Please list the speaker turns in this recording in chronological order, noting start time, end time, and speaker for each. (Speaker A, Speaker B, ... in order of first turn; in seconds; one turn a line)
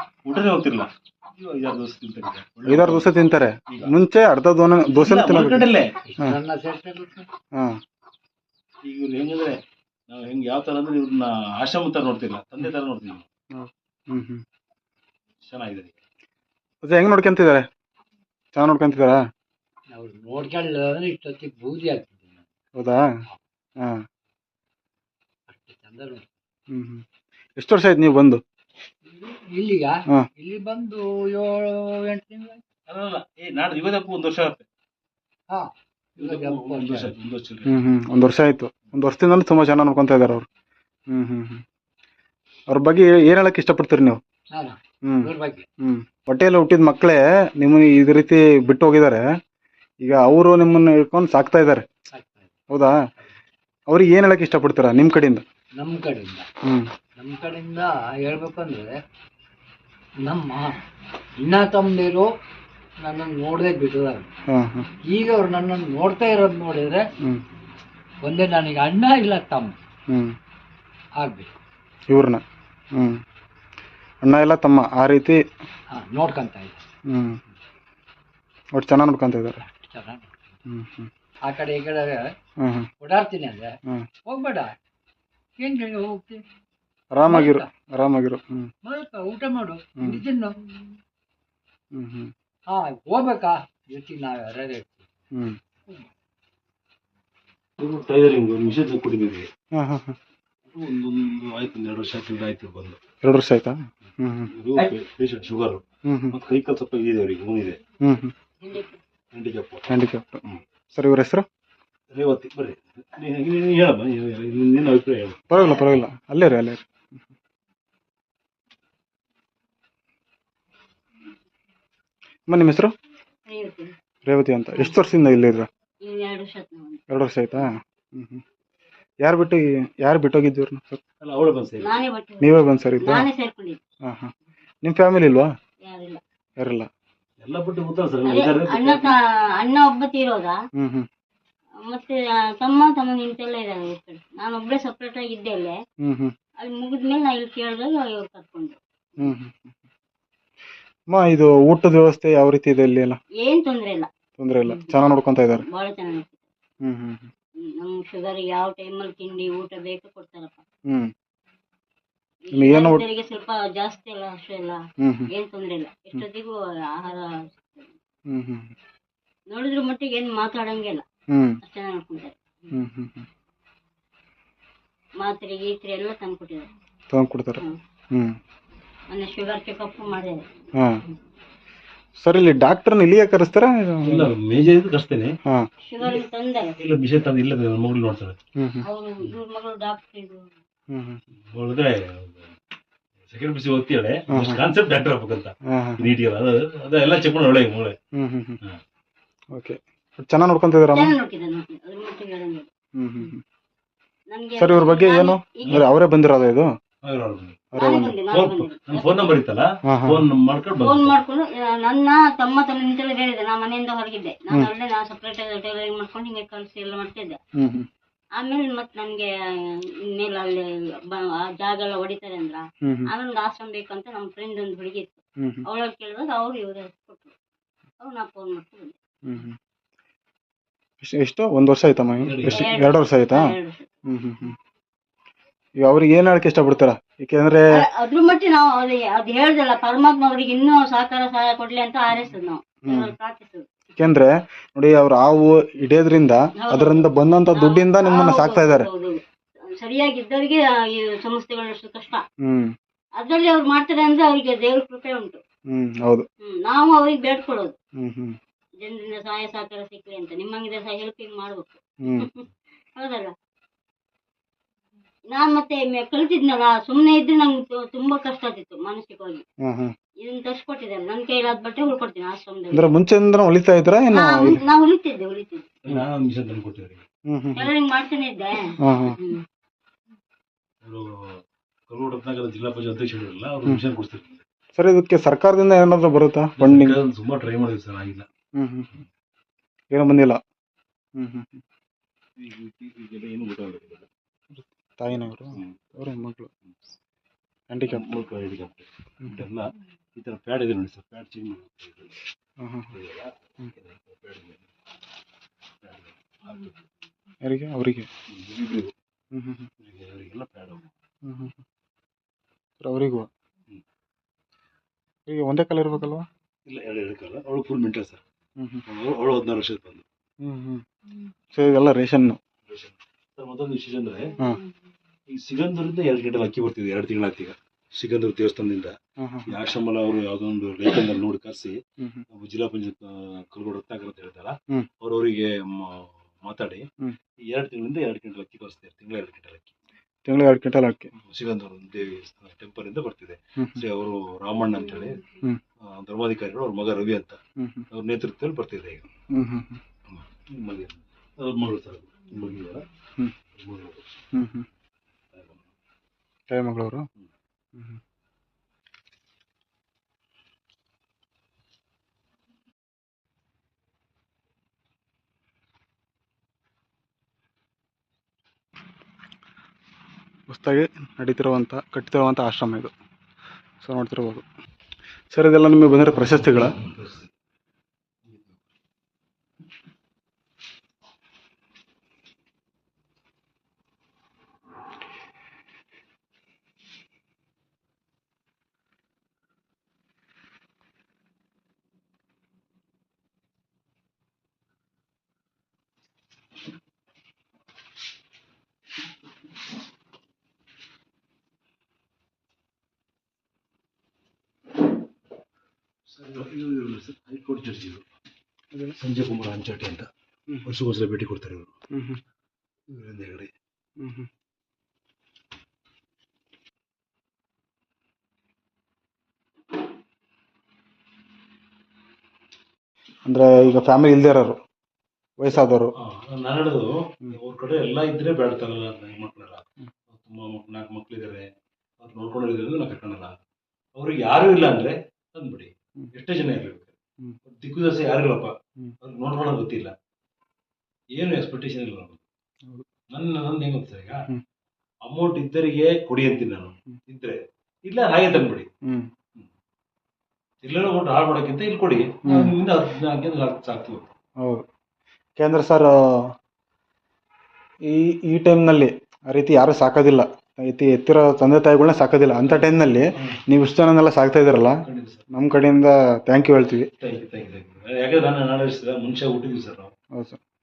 Speaker A: 0.2-3.9
Speaker B: 2.6-6.4
Speaker A: 4.9-5.9
Speaker C: 6.1-7.3
Speaker B: 7.5-7.8
Speaker A: 8.8-13.3
Speaker B: 13.5-14.4
Speaker A: 15.4-15.9
Speaker B: 16.8-17.7
Speaker B: 18.5-19.2
Speaker C: 19.9-22.4
Speaker B: 22.8-23.0
Speaker C: 25.5-26.3
Speaker B: 26.7-27.0
Speaker B: 27.6-28.4
Speaker C: 29.1-32.6
Speaker A: 32.9-34.6
Speaker C: 35.5-37.1
Speaker A: 36.1-37.8
Speaker B: 37.6-40.5
Speaker B: 41.1-41.6
Speaker B: 42.7-44.2
Speaker C: 44.5-45.7
Speaker B: 45.1-49.2
Speaker B: 50.0-51.8
Speaker C: 52.1-52.5
Speaker B: 52.7-53.0
Speaker B: 53.9-55.4
Speaker C: 55.8-56.5
Speaker C: 57.1-59.0
Speaker C: 60.2-60.8
Speaker C: 61.4-62.3
Speaker C: 63.0-64.3
Speaker B: 64.5-64.9
Speaker C: 65.0-67.1
Speaker C: 68.2-69.8
Speaker B: 70.1-70.3
Speaker C: 71.2-71.5
Speaker B: 72.1-72.4
Speaker B: 72.9-73.2
Speaker B: 74.2-75.4
Speaker C: 75.9-76.8
Speaker B: 77.1-77.4
Speaker B: 78.7-79.6
Speaker C: 79.6-80.5
Speaker B: 80.7-81.1
Speaker C: 81.4-82.3
Speaker B: 82.6-82.9
Speaker C: 83.0-84.7
Speaker C: 85.6-86.4
Speaker B: 87.1-88.7
Speaker C: 87.3-87.7
Speaker C: 88.8-90.7
Speaker B: 91.9-92.3
Speaker C: 92.7-95.1
Speaker B: 95.3-95.6
Speaker A: 97.8-99.5
Speaker B: 99.7-100.2
Speaker A: 100.7-103.0
Speaker B: 103.2-104.5
Speaker A: 104.5-107.8
Speaker B: 106.0-106.4
Speaker B: 108.0-108.3
Speaker D: 108.6-108.9
Speaker A: 109.3-109.9
Speaker B: 109.9-110.4
Speaker B: 110.9-111.5
Speaker A: 112.1-115.4
Speaker B: 115.5-116.8
Speaker B: 122.5-122.9
Speaker D: 123.5-123.9
Speaker B: 124.2-125.7
Speaker D: 126.0-127.0
Speaker B: 127.1-128.4
Speaker B: 129.2-131.0
Speaker A: 131.2-132.0
Speaker D: 131.8-133.8
Speaker B: 132.4-133.3
Speaker B: 134.0-134.3
Speaker B: 134.8-135.5
Speaker D: 135.9-136.2
Speaker B: 136.6-136.9
Speaker A: 137.4-139.1
Speaker D: 138.2-140.6
Speaker B: 140.8-141.1
Speaker D: 141.8-145.8
Speaker B: 146.0-146.3
Speaker D: 146.6-149.3
Speaker B: 149.2-149.8
Speaker B: 151.1-153.2
Speaker D: 153.4-154.1
Speaker B: 154.4-155.6
Speaker D: 154.7-154.9
Speaker D: 155.7-156.4
Speaker B: 156.8-157.3
Speaker D: 157.6-160.6
Speaker D: 162.5-164.8
Speaker B: 162.5-163.0
Speaker B: 165.0-165.3
Speaker D: 165.3-167.9
Speaker B: 168.3-168.7
Speaker D: 169.5-171.0
Speaker B: 171.3-171.6
Speaker D: 171.6-172.4
Speaker B: 172.7-173.3
Speaker D: 175.2-176.7
Speaker B: 177.1-178.4
Speaker D: 179.1-180.4
Speaker B: 182.2-184.3
Speaker A: 184.0-185.4
Speaker D: 185.8-186.8
Speaker A: 186.0-186.2
Speaker A: 186.8-188.3
Speaker B: 188.6-188.8
Speaker D: 188.8-190.5
Speaker B: 190.9-191.2
Speaker A: 191.5-192.5
Speaker A: 193.2-197.9
Speaker B: 194.3-194.6
Speaker B: 195.7-196.1
Speaker B: 198.1-198.6
Speaker B: 199.5-201.1
Speaker D: 200.9-202.7
Speaker B: 203.0-203.4
Speaker D: 204.3-205.8
Speaker B: 204.6-206.7
Speaker A: 207.0-207.6
Speaker B: 207.7-208.2
Speaker D: 207.8-209.3
Speaker A: 208.3-211.2
Speaker B: 209.9-210.3
Speaker D: 210.8-217.4
Speaker B: 217.6-217.9
Speaker D: 218.4-219.3
Speaker D: 220.1-227.3
Speaker B: 222.8-223.1
Speaker B: 225.4-225.6
Speaker D: 228.0-228.9
Speaker B: 229.2-229.6
Speaker B: 231.0-233.5
Speaker A: 232.2-232.7
Speaker D: 232.5-233.9
Speaker B: 234.1-234.6
Speaker B: 235.8-237.7
Speaker D: 237.7-243.6
Speaker B: 242.9-243.1
Speaker B: 244.0-248.9
Speaker D: 246.6-249.2
Speaker D: 249.8-252.2
Speaker B: 252.4-252.7
Speaker D: 253.2-255.4
Speaker B: 255.7-256.2
Speaker D: 256.4-257.7
Speaker B: 258.0-258.4
Speaker D: 258.8-263.3
Speaker B: 262.0-262.3
Speaker D: 265.3-269.4
Speaker B: 269.6-269.9
Speaker D: 270.2-272.9
Speaker B: 272.7-274.6
Speaker D: 274.1-275.7
Speaker A: 275.8-277.0
Speaker B: 277.3-277.7
Speaker D: 277.6-279.4
Speaker B: 278.8-279.2
Speaker A: 280.8-284.4
Speaker B: 284.8-287.0
Speaker A: 286.6-288.3
Speaker B: 288.6-288.9
Speaker B: 289.9-290.4
Speaker B: 291.2-291.6
Speaker A: 292.4-294.1
Speaker B: 294.5-296.5
Speaker A: 295.1-295.8
Speaker B: 297.7-298.1
Speaker A: 297.9-302.1
Speaker B: 302.6-302.9
Speaker A: 302.9-304.7
Speaker A: 305.8-306.8
Speaker B: 307.4-308.1
Speaker A: 308.3-308.9
Speaker B: 309.3-309.7
Speaker A: 309.8-310.8
Speaker B: 311.2-311.6
Speaker B: 312.8-313.3
Speaker B: 315.3-316.3
Speaker A: 316.7-318.2
Speaker B: 318.6-318.8
Speaker A: 318.9-320.0
Speaker B: 320.4-320.8
Speaker B: 321.5-322.4
Speaker A: 322.6-324.3
Speaker A: 325.3-331.8
Speaker B: 329.2-329.6
Speaker A: 332.3-336.9
Speaker A: 337.5-339.7
Speaker B: 340.2-341.1
Speaker A: 341.1-345.2
Speaker B: 343.6-343.8
Speaker A: 345.8-347.4
Speaker B: 347.6-347.8
Speaker A: 347.9-349.1
Speaker B: 349.3-349.8
Speaker A: 350.1-352.8
Speaker A: 353.5-354.2
Speaker B: 354.3-354.6
Speaker A: 355.3-355.7
Speaker B: 356.5-357.1
Speaker B: 370.5-372.9
Speaker B: 373.8-374.4
Speaker B: 375.3-376.8
Speaker A: 376.1-377.3
Speaker A: 378.3-378.6
Speaker A: 406.1-408.0
Speaker A: 409.0-410.1
Speaker A: 410.6-411.7
Speaker B: 411.9-412.2
Speaker A: 412.9-413.5
Speaker B: 414.0-414.3
Speaker B: 423.2-424.6
Speaker B: 425.4-425.9
Speaker A: 425.9-433.4
Speaker A: 433.9-439.9
Speaker A: 441.1-442.2
Speaker A: 443.1-444.2
Speaker A: 445.0-448.7
Speaker A: 450.6-454.1
Speaker B: 452.2-452.5
Speaker B: 455.4-456.3
Speaker B: 457.8-464.8
Speaker A: 462.4-463.4
Speaker A: 464.8-465.3
Speaker B: 465.3-466.9
Speaker A: 467.0-469.9
Speaker B: 470.1-470.4